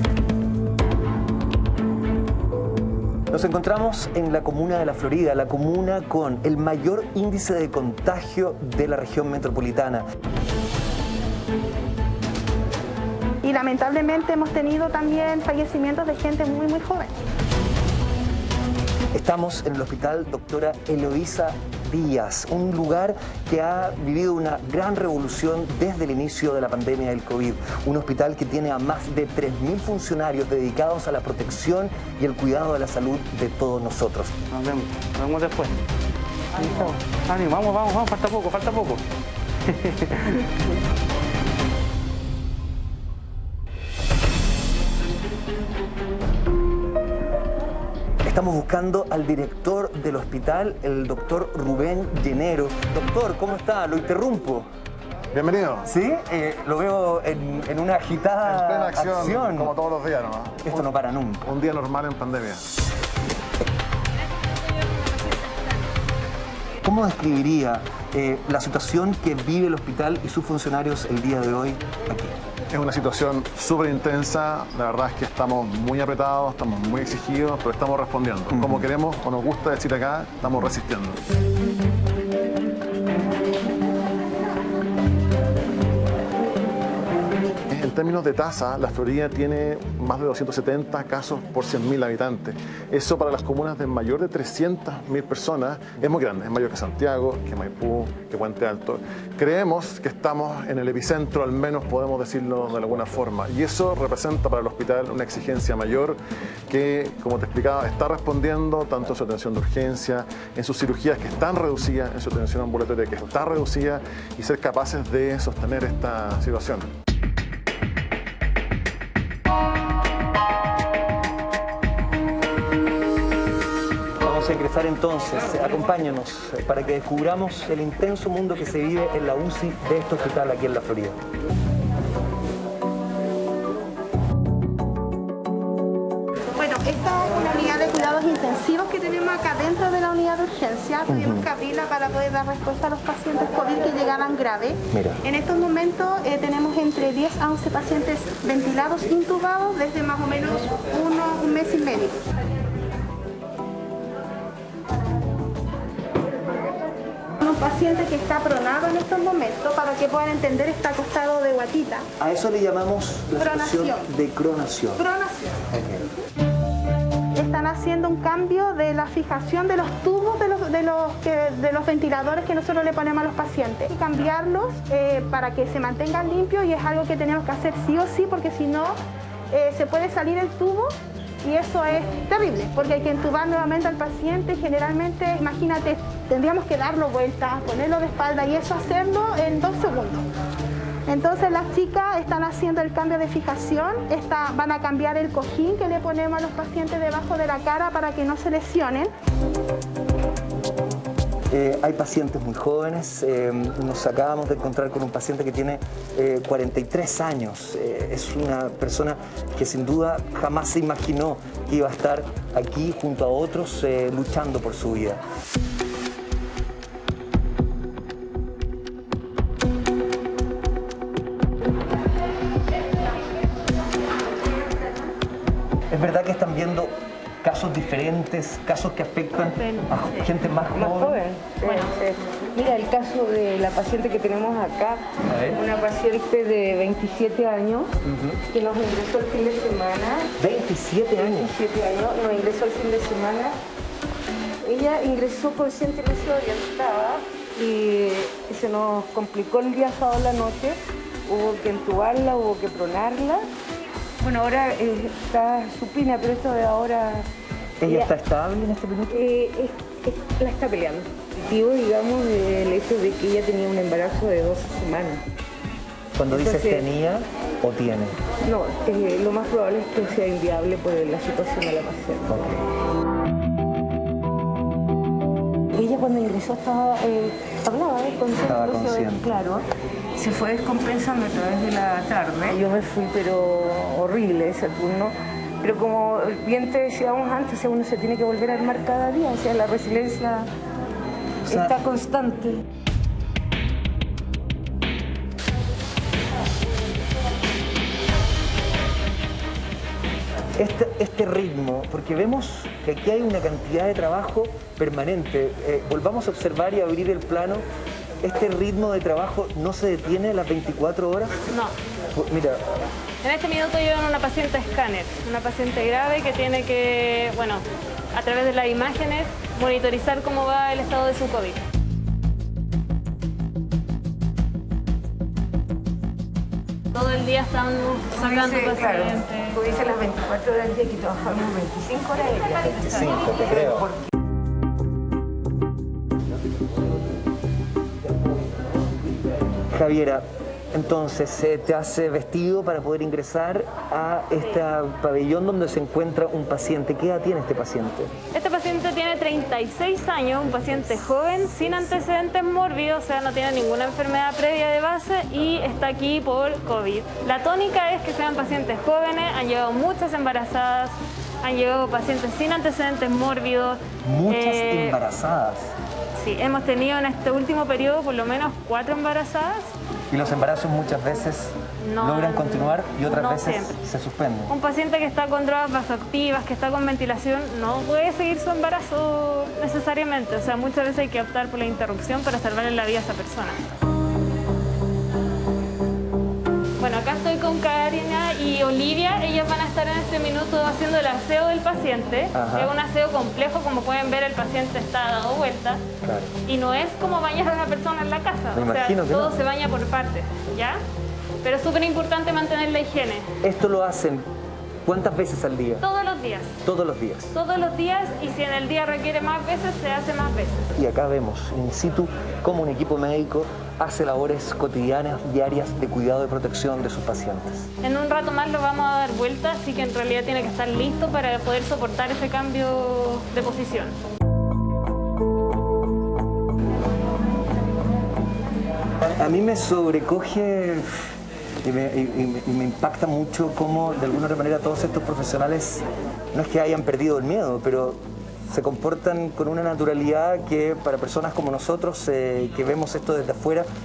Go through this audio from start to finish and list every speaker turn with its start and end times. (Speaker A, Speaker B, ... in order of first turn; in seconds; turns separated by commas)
Speaker A: 3.3-10.0, Speaker B: 13.4-17.1, Speaker A: 19.1-34.3, Speaker C: 34.5-35.8, Speaker C: 36.5-39.0, Speaker C: 39.7-40.5, Speaker A: 48.2-54.7, Speaker D: 55.3-55.9, Speaker A: 55.9-59.8, Speaker D: 58.4-60.9, Speaker A: 60.6-61.5, Speaker D: 61.4-62.6, Speaker A: 66.8-72.3, Speaker D: 72.7-81.2, Speaker D: 87.7-106.2, Speaker D: 106.7-116.9, Speaker A: 124.2-131.2, Speaker B: 136.6-152.2, Speaker A: 141.1-141.5, Speaker A: 144.9-145.2, Speaker B: 157.4-162.1, Speaker A: 162.2-165.1, Speaker B: 163.4-164.1, Speaker B: 165.0-165.6, Speaker A: 165.7-166.1, Speaker B: 167.3-178.9, Speaker B: 179.5-180.9, Speaker B: 181.4-190.2, Speaker B: 191.1-199.1, Speaker A: 201.5-215.2, Speaker A: 225.9-231.2, Speaker E: 229.5-230.3, Speaker F: 230.7-235.0, Speaker E: 231.7-231.9, Speaker A: 235.3-235.6, Speaker F: 235.5-237.9, Speaker A: 238.1-238.4, Speaker F: 238.5-240.3, Speaker A: 240.4-241.5, Speaker F: 241.2-243.6, Speaker F: 244.6-253.5, Speaker F: 254.2-257.3, Speaker A: 257.8-259.2, Speaker F: 257.8-258.1, Speaker F: 259.1-265.2, Speaker A: 266.2-268.2, Speaker F: 266.3-266.9, Speaker F: 268.4-272.4, Speaker A: 272.3-272.6, Speaker F: 275.7-290.5, Speaker A: 278.4-279.2, Speaker A: 291.5-291.8, Speaker F: 291.5-292.6, Speaker A: 300.6-307.6, Speaker A: 308.2-311.4, Speaker A: 312.1-312.6, Speaker E: 313.2-317.6, Speaker E: 318.1-321.6, Speaker E: 326.9-329.6, Speaker F: 328.2-334.0, Speaker E: 332.7-333.1, Speaker A: 332.8-333.9, Speaker A: 339.7-348.1, Speaker E: 348.3-365.0, Speaker A: 364.0-365.8, Speaker E: 366.1-369.7, Speaker A: 370.1-374.5, Speaker E: 371.9-373.8, Speaker E: 374.5-383.6, Speaker E: 386.8-395.8, Speaker A: 392.3-392.8, Speaker A: 396.0-396.3, Speaker E: 396.5-400.8, Speaker A: 398.5-399.4, Speaker E: 401.4-403.3, Speaker A: 403.4-404.3, Speaker A: 404.9-405.8, Speaker E: 405.8-406.6, Speaker A: 406.6-407.4, Speaker E: 407.3-410.7, Speaker A: 410.8-417.7, Speaker E: 417.8-423.9, Speaker A: 429.0-430.9, Speaker A: 431.6-443.7